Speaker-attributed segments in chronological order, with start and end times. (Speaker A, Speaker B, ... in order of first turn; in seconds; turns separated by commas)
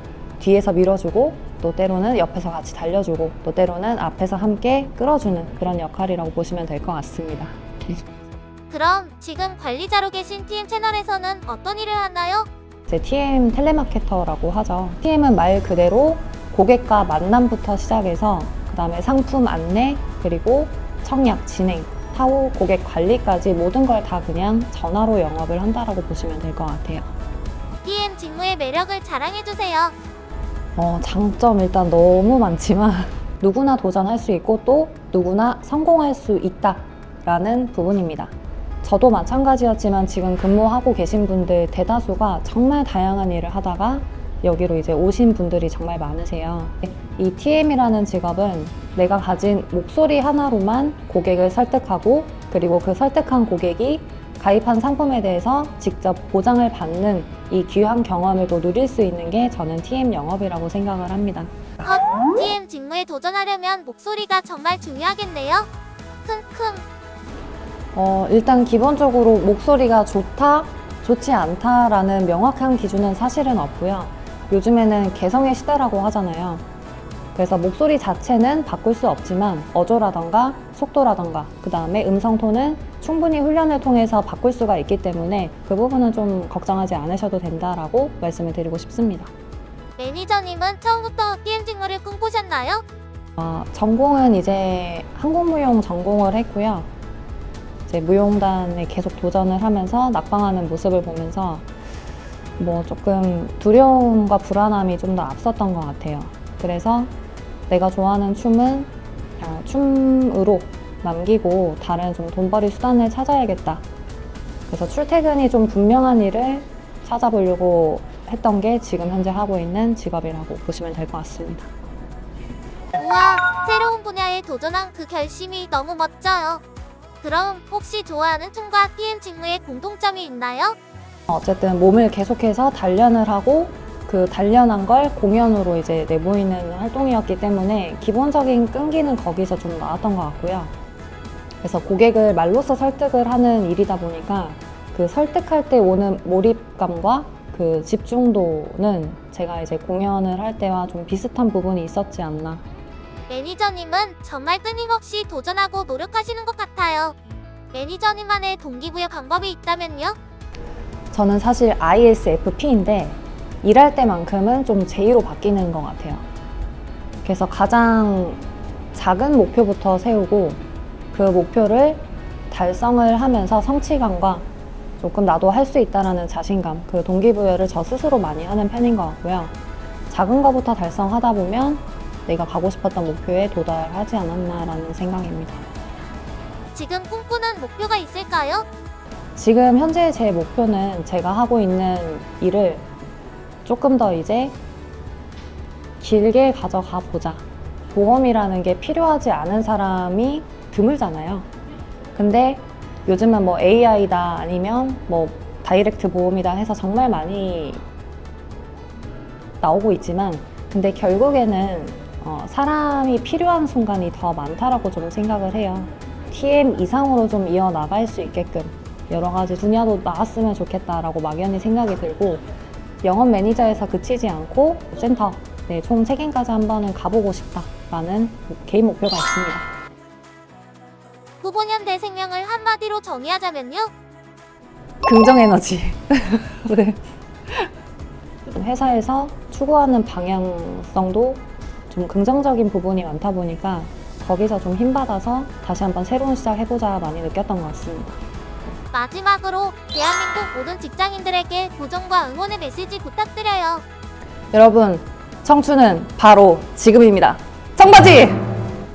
Speaker A: 0.4-8.1, Speaker B: 8.7-12.5, Speaker A: 12.9-27.1, Speaker B: 27.8-29.9, Speaker A: 30.8-61.5, Speaker B: 61.8-65.7, Speaker B: 66.2-66.8, Speaker A: 67.9-76.7, Speaker A: 77.3-89.3, Speaker B: 90.0-92.8, Speaker A: 93.4-96.9, Speaker A: 97.9-101.7, Speaker A: 102.6-107.1, Speaker A: 107.7-113.8, Speaker A: 114.7-121.7, Speaker B: 123.0-126.6, Speaker B: 127.2-130.8, Speaker A: 131.3-140.7, Speaker A: 141.6-152.6, Speaker B: 153.3-157.2, Speaker B: 157.7-160.2, Speaker A: 161.1-166.2, Speaker A: 167.2-168.4, Speaker A: 168.9-170.6, Speaker A: 171.1-174.5, Speaker A: 175.0-179.5, Speaker A: 180.1-185.7, Speaker B: 186.7-188.7, Speaker A: 189.4-192.9, Speaker A: 193.7-194.6, Speaker A: 196.0-201.5, Speaker A: 202.1-207.8, Speaker A: 209.6-222.4, Speaker A: 223.0-229.7, Speaker B: 231.4-233.9, Speaker A: 235.0-237.7, Speaker A: 238.5-248.2, Speaker B: 248.9-253.8, Speaker A: 254.5-258.5